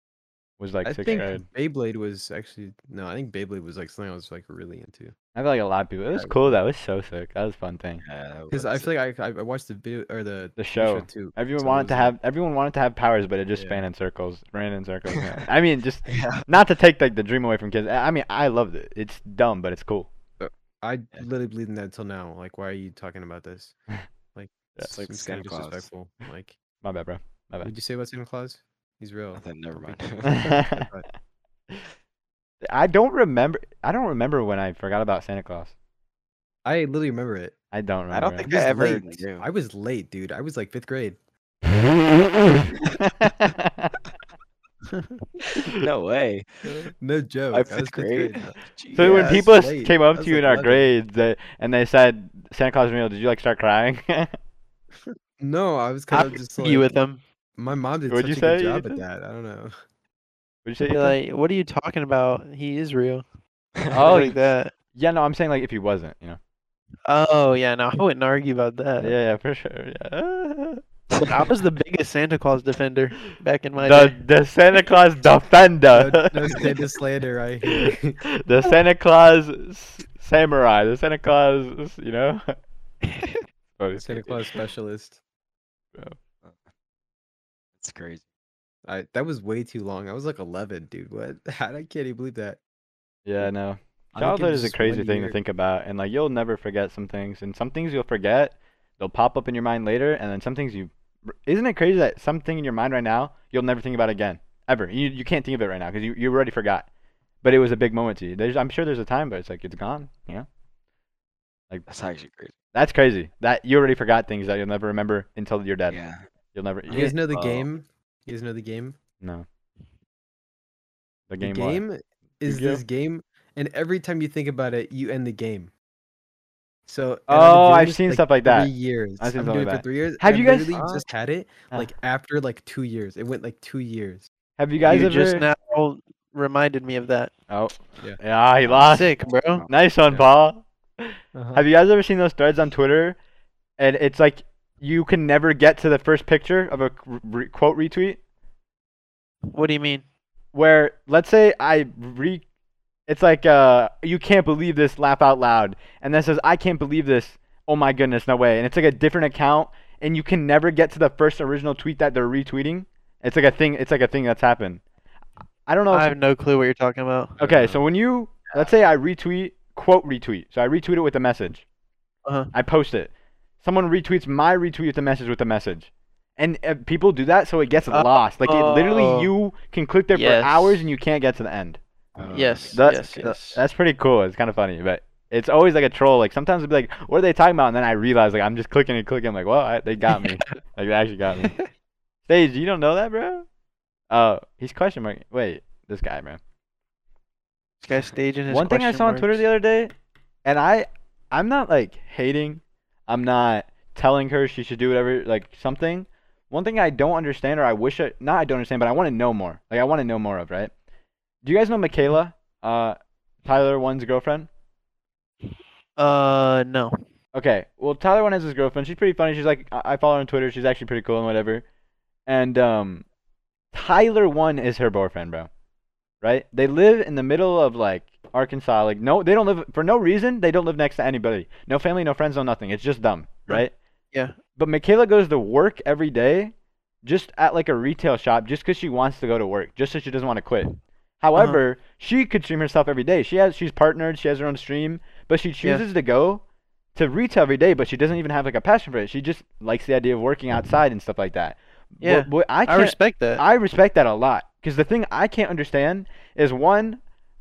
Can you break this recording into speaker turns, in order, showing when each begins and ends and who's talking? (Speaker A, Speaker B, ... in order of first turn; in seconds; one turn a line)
Speaker A: 0.6-1.5
Speaker B: 0.8-5.1
Speaker A: 5.3-8.0
Speaker B: 6.1-6.6
Speaker C: 8.0-8.9
Speaker B: 8.5-12.1
Speaker A: 10.6-20.1
Speaker B: 13.5-13.8
Speaker C: 16.1-16.5
Speaker B: 20.4-23.8
Speaker B: 24.3-26.6
Speaker C: 24.9-25.9
Speaker A: 26.8-27.7
Speaker B: 27.6-31.1
Speaker C: 29.4-30.4
Speaker A: 30.3-30.9
Speaker A: 32.6-35.7
Speaker B: 36.6-37.5
Speaker A: 37.7-38.5
Speaker C: 38.1-39.5
Speaker B: 38.5-41.2
Speaker A: 43.0-43.9
Speaker D: 44.9-45.2
Speaker C: 45.8-46.9
Speaker B: 46.7-50.9
Speaker C: 47.5-49.5
Speaker A: 49.0-54.4
Speaker B: 55.4-56.9
Speaker D: 56.1-57.2
Speaker B: 57.6-59.7
Speaker A: 58.1-59.0
Speaker A: 60.6-61.2
Speaker D: 60.9-63.2
Speaker D: 63.9-64.7
Speaker A: 63.9-64.4
Speaker A: 64.9-66.4
Speaker D: 67.1-69.1
Speaker A: 69.0-71.2
Speaker D: 71.2-74.2
Speaker A: 73.8-76.7
Speaker B: 75.9-78.2
Speaker A: 77.7-82.5
Speaker D: 83.1-83.4
Speaker A: 83.8-84.3
Speaker B: 84.0-85.2
Speaker C: 87.8-88.2
Speaker B: 88.8-92.6
Speaker A: 93.3-106.9
Speaker B: 94.2-95.4
Speaker A: 107.4-110.5
Speaker C: 111.9-112.5
Speaker A: 112.7-116.0
Speaker C: 115.9-116.3
Speaker A: 116.5-117.2
Speaker B: 116.9-119.0
Speaker C: 117.3-117.7
Speaker A: 121.3-121.8
Speaker B: 121.4-125.7
Speaker A: 122.5-122.8
Speaker B: 126.9-134.3
Speaker A: 127.3-131.0
Speaker A: 134.6-135.5
Speaker D: 134.8-137.3
Speaker A: 137.5-139.1
Speaker D: 138.7-139.7
Speaker A: 139.7-143.2
Speaker B: 141.3-141.6
Speaker A: 143.8-148.2
Speaker D: 149.5-150.0
Speaker A: 150.5-152.4
Speaker A: 153.1-164.8
Speaker A: 165.7-166.1
Speaker D: 165.9-167.4
Speaker A: 167.4-171.6
Speaker C: 167.5-167.7
Speaker D: 172.2-172.5
Speaker A: 172.5-181.8
Speaker D: 177.9-179.3
Speaker D: 180.1-180.8
Speaker C: 182.2-182.8
Speaker D: 182.3-183.6
Speaker A: 182.7-191.5
Speaker D: 191.4-191.7
Speaker A: 192.3-193.4
Speaker A: 194.1-196.4
Speaker D: 197.8-199.4
Speaker A: 198.5-199.9
Speaker A: 200.4-210.7
Speaker A: 211.4-214.5
Speaker D: 216.0-217.0
Speaker A: 217.3-221.6
Speaker A: 222.3-223.0
Speaker A: 223.7-225.5
Speaker A: 226.2-233.7
Speaker D: 233.5-234.4
Speaker A: 234.6-246.4
Speaker A: 246.9-257.0
Speaker D: 252.0-253.4